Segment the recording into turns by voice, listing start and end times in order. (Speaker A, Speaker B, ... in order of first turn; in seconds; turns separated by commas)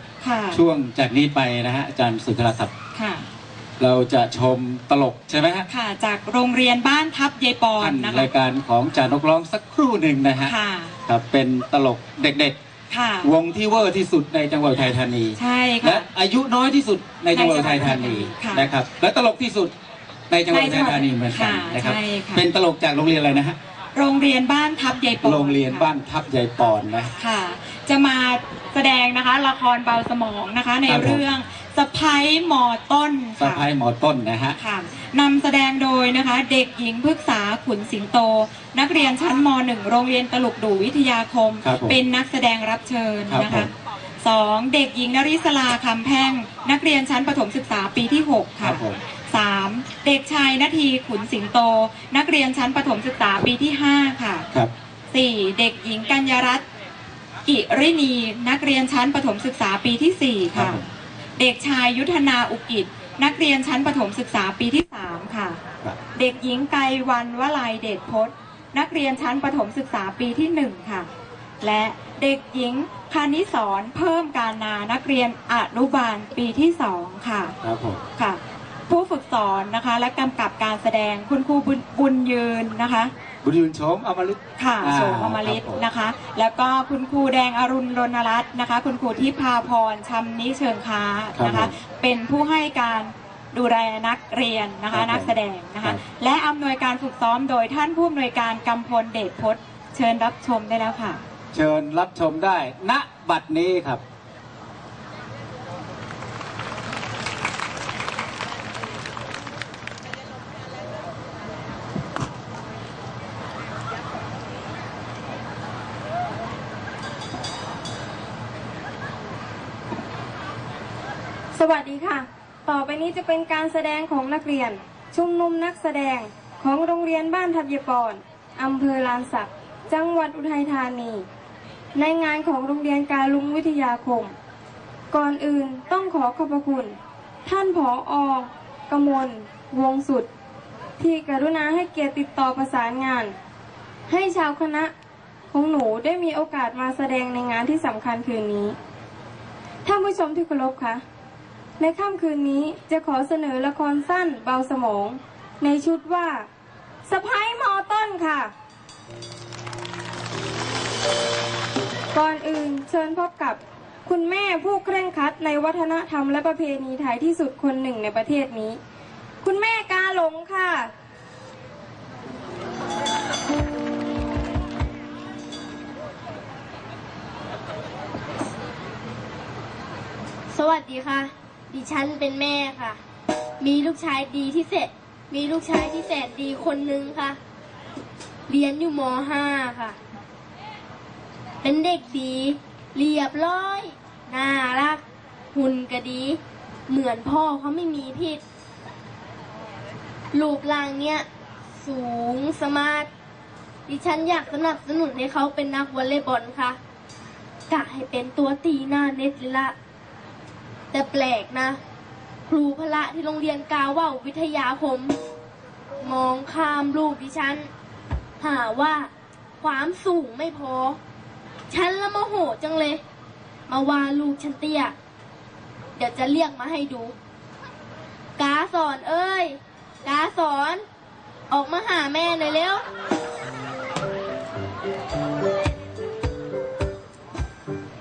Speaker A: 0.2-0.6, Speaker B: 0.5-2.7, Speaker A: 2.9-3.3, Speaker B: 3.8-5.7, Speaker A: 5.7-8.3, Speaker B: 7.8-10.5, Speaker A: 10.4-10.9, Speaker B: 11.1-12.6, Speaker A: 12.9-13.3, Speaker B: 13.2-19.7, Speaker A: 15.3-16.1, Speaker A: 17.3-18.7, Speaker B: 20.3-23.6, Speaker A: 20.5-22.4, Speaker A: 23.9-25.9, Speaker B: 25.2-27.1, Speaker A: 27.2-33.7, Speaker B: 30.9-31.2, Speaker B: 33.4-34.6, Speaker A: 34.6-43.7, Speaker B: 41.6-42.0, Speaker B: 43.3-43.7, Speaker A: 44.2-54.5, Speaker B: 48.6-49.0, Speaker A: 55.1-56.6, Speaker A: 57.5-60.8, Speaker B: 60.5-60.8, Speaker A: 61.4-65.6, Speaker A: 66.1-71.1, Speaker A: 71.6-77.5, Speaker B: 77.6-78.0, Speaker A: 78.2-83.1, Speaker B: 83.4-85.8, Speaker A: 84.6-101.2, Speaker B: 91.3-91.7, Speaker B: 94.9-96.0, Speaker B: 101.5-104.0, Speaker C: 121.5-131.2, Speaker C: 131.9-134.3, Speaker C: 135.1-140.3, Speaker C: 141.0-143.3, Speaker C: 144.1-144.9, Speaker C: 145.5-148.7, Speaker C: 149.8-151.0, Speaker C: 151.8-156.4, Speaker C: 157.1-158.5, Speaker C: 162.1-168.8, Speaker C: 169.4-170.9, Speaker D: 180.5-183.0, Speaker D: 183.6-187.4, Speaker D: 188.5-189.9, Speaker D: 191.6-195.0, Speaker D: 195.5-198.4, Speaker D: 200.3-201.2, Speaker D: 201.8-203.1, Speaker D: 203.9-206.8, Speaker D: 207.7-209.7, Speaker D: 210.9-211.8, Speaker D: 212.5-215.2, Speaker D: 216.0-217.7, Speaker D: 218.4-219.1, Speaker D: 219.6-221.0, Speaker D: 221.7-223.0, Speaker D: 223.7-224.9, Speaker D: 226.0-227.1, Speaker D: 228.4-230.8, Speaker D: 231.5-232.8